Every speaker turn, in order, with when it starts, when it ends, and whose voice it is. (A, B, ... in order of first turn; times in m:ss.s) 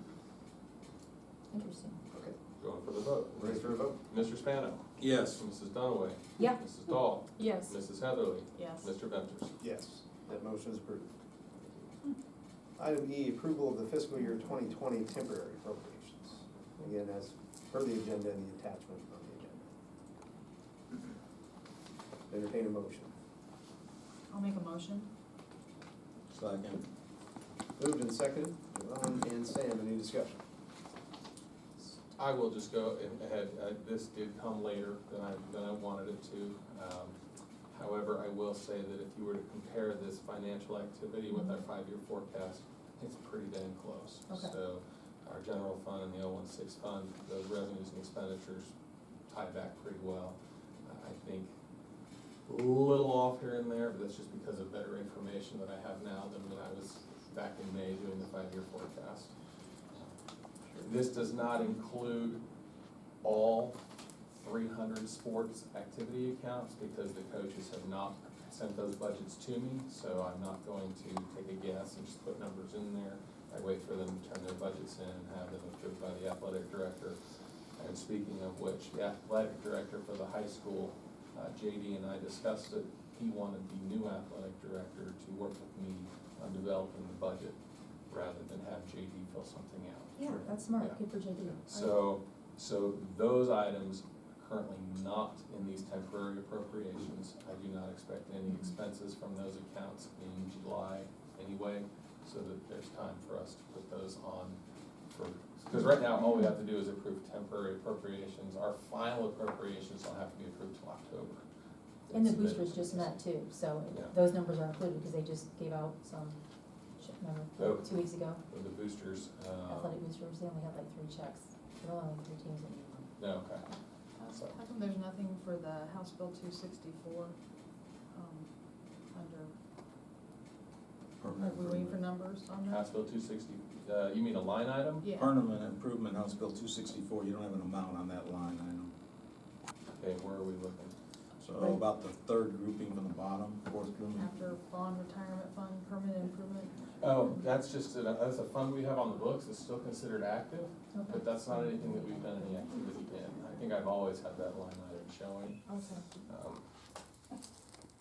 0:01.5-0:02.0 A
0:02.6-0:09.6 B
0:03.4-0:04.0 C
0:05.0-0:05.4 D
0:07.4-0:07.8 E
0:08.5-0:08.9 E
0:09.6-0:11.9 C
0:12.8-0:19.7 C
0:22.3-0:23.1 C
0:24.3-0:25.1 E
0:26.3-0:26.8 D
0:27.8-0:30.4 C
0:32.2-0:37.2 B
0:37.7-0:48.7 B
0:44.3-0:44.5 A
0:49.3-0:51.5 B
0:52.4-0:59.3 B
1:00.8-1:02.4 B
1:03.2-1:03.8 B
1:04.3-1:17.2 B
1:17.8-1:27.6 B
1:28.1-1:44.6 B
1:30.2-1:32.0 A
1:45.1-1:51.4 B
1:52.1-1:53.2 B
1:52.1-1:56.4 A
1:53.9-1:54.1 B
1:57.0-1:58.4 A
1:57.6-2:00.0 B
1:59.7-2:03.1 A
2:03.2-2:03.7 B
2:04.2-2:07.4 E
2:04.2-2:04.6 B
2:08.1-2:09.5 E
2:11.2-2:12.0 D
2:11.3-2:12.9 E
2:12.7-2:15.1 B
2:15.0-2:15.3 E
2:15.1-2:18.9 D
2:20.0-2:20.9 B
2:21.4-2:24.3 D
2:24.1-2:26.9 E
2:27.0-2:35.6 B
2:30.9-2:31.2 A
2:35.7-2:36.0 A
2:36.2-2:36.6 B